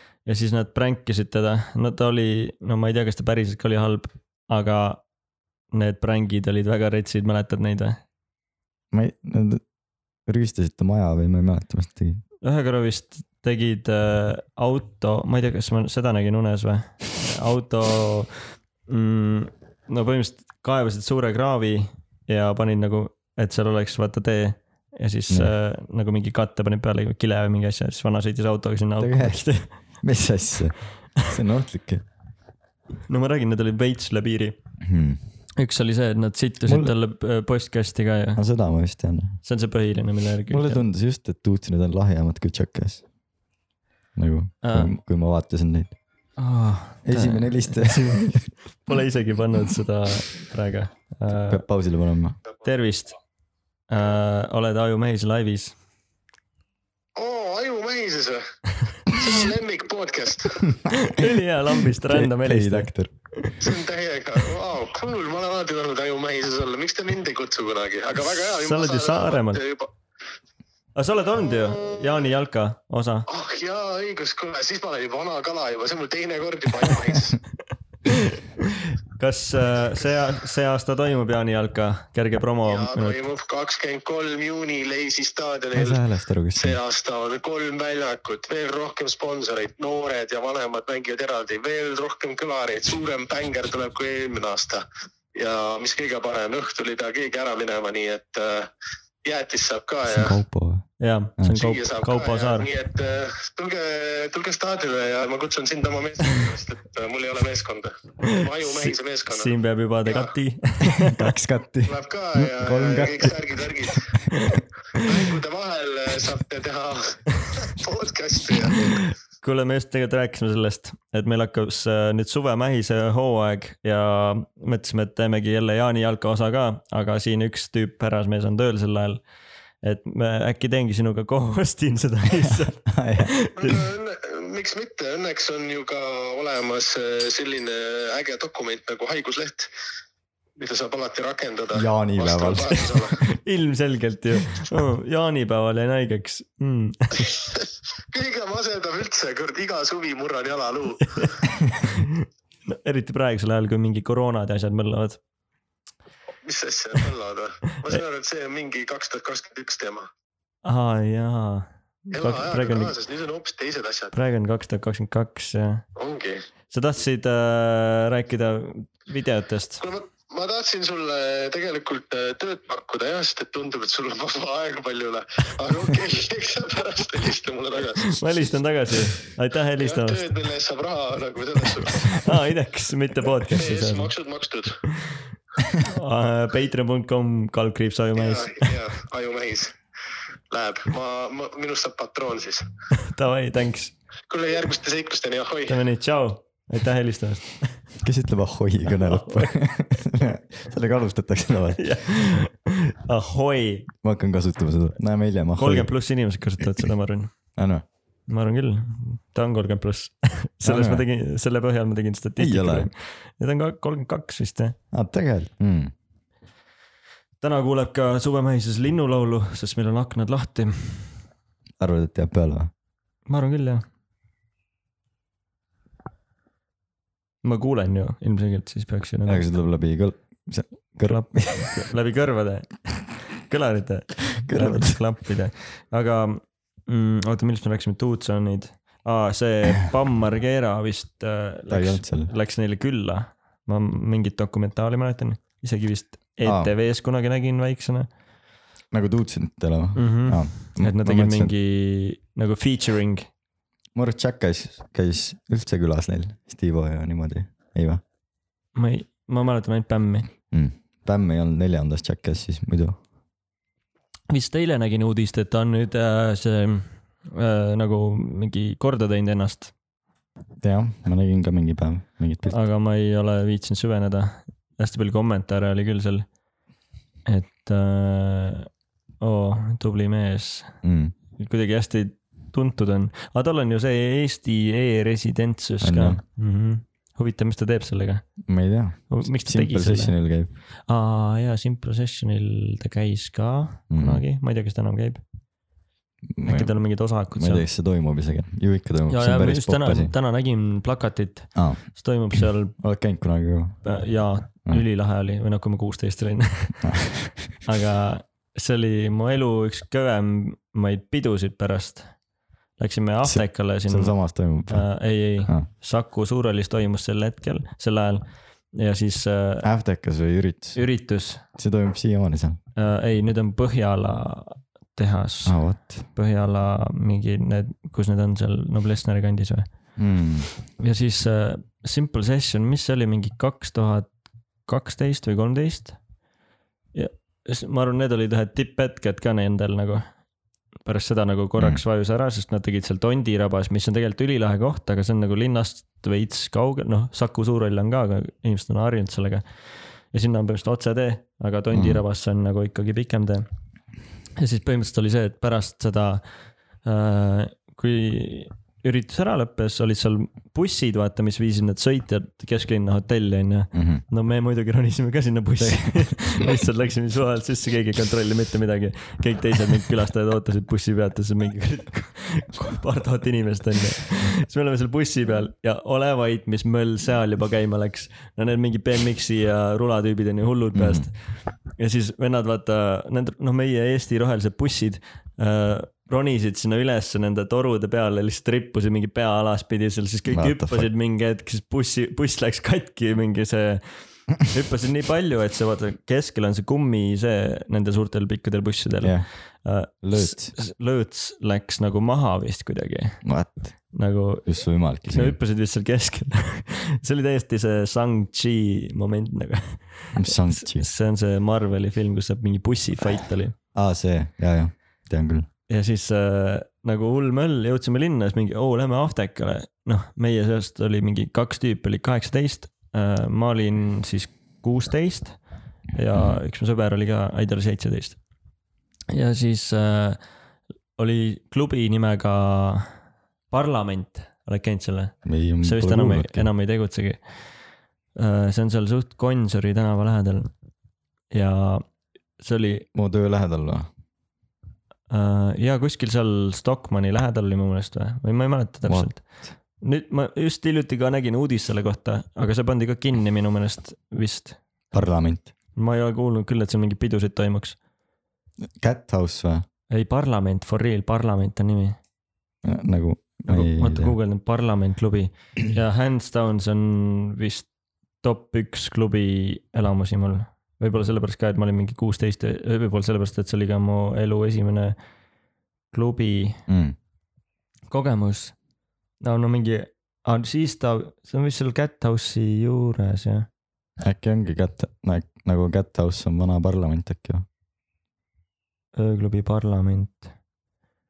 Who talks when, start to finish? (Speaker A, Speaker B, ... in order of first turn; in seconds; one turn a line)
Speaker A: 0.2-5.0
Speaker A: 5.7-8.0
Speaker B: 8.9-9.6
Speaker B: 10.3-12.2
Speaker A: 12.4-18.3
Speaker A: 18.9-29.7
Speaker B: 29.0-32.0
Speaker A: 33.1-34.5
Speaker B: 34.8-35.2
Speaker A: 35.6-38.4
Speaker B: 36.7-36.9
Speaker B: 38.4-39.4
Speaker A: 39.4-40.8
Speaker B: 40.5-43.0
Speaker B: 44.2-46.0
Speaker A: 44.6-44.9
Speaker A: 46.4-51.6
Speaker B: 47.0-48.5
Speaker B: 51.3-52.4
Speaker A: 52.6-53.1
Speaker A: 53.9-55.8
Speaker C: 57.2-58.4
Speaker C: 59.0-60.7
Speaker A: 60.9-63.7
Speaker B: 62.1-63.1
Speaker C: 63.6-69.9
Speaker A: 68.5-69.6
Speaker A: 71.0-73.3
Speaker C: 73.3-77.4
Speaker A: 78.1-83.2
Speaker C: 82.7-86.0
Speaker B: 85.7-86.8
Speaker C: 86.5-94.8
Speaker C: 95.3-98.7
Speaker C: 99.2-100.4
Speaker B: 100.1-100.9
Speaker A: 101.0-102.7
Speaker C: 101.5-109.5
Speaker A: 108.3-111.3
Speaker C: 110.1-110.3
Speaker B: 111.0-113.4
Speaker C: 111.9-114.1
Speaker A: 114.5-115.0
Speaker C: 115.0-119.0
Speaker A: 118.8-129.2
Speaker A: 129.8-133.8
Speaker B: 132.9-133.3
Speaker C: 133.6-139.7
Speaker C: 140.6-143.2
Speaker B: 141.7-142.9
Speaker A: 143.3-147.3
Speaker C: 147.3-151.3
Speaker A: 151.1-155.2
Speaker C: 156.4-160.1
Speaker A: 160.7-162.9
Speaker C: 162.1-164.1
Speaker A: 164.1-165.8
Speaker C: 166.0-166.4
Speaker A: 166.7-169.8
Speaker C: 169.8-178.2
Speaker A: 178.1-180.3
Speaker C: 179.8-182.3
Speaker A: 182.1-184.1
Speaker C: 183.5-184.8
Speaker A: 184.9-185.2
Speaker A: 185.8-188.8
Speaker C: 188.2-189.8
Speaker C: 190.5-192.7
Speaker A: 193.0-193.9
Speaker C: 194.3-195.8
Speaker A: 195.7-197.6
Speaker B: 198.0-201.9
Speaker A: 199.0-199.6
Speaker A: 201.8-203.9
Speaker B: 204.0-205.9
Speaker A: 205.6-207.3
Speaker B: 207.6-207.8
Speaker A: 208.3-214.8
Speaker B: 210.6-211.0
Speaker B: 212.4-212.9
Speaker B: 214.9-215.9
Speaker A: 217.4-221.1
Speaker B: 221.8-222.7
Speaker A: 223.3-223.8
Speaker A: 227.4-229.4
Speaker B: 229.3-231.7
Speaker A: 231.1-232.7
Speaker A: 233.4-248.1
Speaker B: 234.4-235.0
Speaker B: 241.7-242.3
Speaker B: 246.4-246.7
Speaker B: 248.9-251.5
Speaker A: 250.0-253.3
Speaker B: 253.9-258.0
Speaker A: 258.8-260.3
Speaker B: 260.5-263.0
Speaker A: 264.3-269.7
Speaker B: 270.6-272.6
Speaker A: 272.5-276.3
Speaker A: 277.3-278.7
Speaker A: 279.2-280.8
Speaker B: 280.8-281.1
Speaker A: 281.4-288.2
Speaker B: 285.8-286.2
Speaker B: 288.5-290.5
Speaker A: 289.1-290.1
Speaker A: 290.9-295.2
Speaker B: 293.9-294.2
Speaker B: 296.3-296.8
Speaker A: 296.4-297.6
Speaker B: 297.3-300.1
Speaker A: 299.1-302.8
Speaker B: 301.6-301.8
Speaker B: 302.8-303.8
Speaker A: 303.8-306.8
Speaker B: 306.8-307.5
Speaker A: 307.6-312.1
Speaker A: 312.8-314.2
Speaker B: 313.2-314.9
Speaker A: 314.7-319.7
Speaker B: 319.6-320.8
Speaker A: 320.8-321.4
Speaker B: 321.6-322.6
Speaker A: 322.8-329.7
Speaker B: 325.5-326.1
Speaker B: 330.0-330.5
Speaker A: 330.8-334.1
Speaker A: 334.7-336.0
Speaker A: 336.9-340.1
Speaker A: 340.9-349.4
Speaker A: 350.1-353.5
Speaker B: 351.7-352.0
Speaker A: 354.4-356.2
Speaker A: 356.8-381.2
Speaker B: 363.7-364.0
Speaker B: 365.6-366.2
Speaker B: 380.8-381.1
Speaker A: 381.8-403.2
Speaker B: 390.3-390.9
Speaker B: 399.0-399.3
Speaker B: 400.0-400.6
Speaker B: 403.2-403.7
Speaker A: 403.9-413.6
Speaker B: 404.4-405.4
Speaker B: 410.1-410.9
Speaker B: 413.8-415.5
Speaker A: 415.7-425.4
Speaker A: 425.9-428.2
Speaker A: 429.1-430.2
Speaker A: 431.0-432.9
Speaker A: 433.5-437.2
Speaker B: 435.2-436.5
Speaker A: 438.2-440.5
Speaker A: 441.3-441.9
Speaker A: 442.4-442.9
Speaker B: 442.9-443.9
Speaker A: 445.1-449.2
Speaker B: 448.9-449.4
Speaker A: 449.8-454.6
Speaker B: 454.9-455.5
Speaker A: 455.8-457.8
Speaker B: 458.8-459.6
Speaker A: 459.9-462.0
Speaker B: 462.6-464.1
Speaker A: 463.5-467.7
Speaker A: 468.2-475.0
Speaker A: 475.9-476.6
Speaker B: 476.7-477.0
Speaker A: 477.9-478.6
Speaker A: 479.2-483.5
Speaker B: 484.0-487.4
Speaker A: 488.9-490.3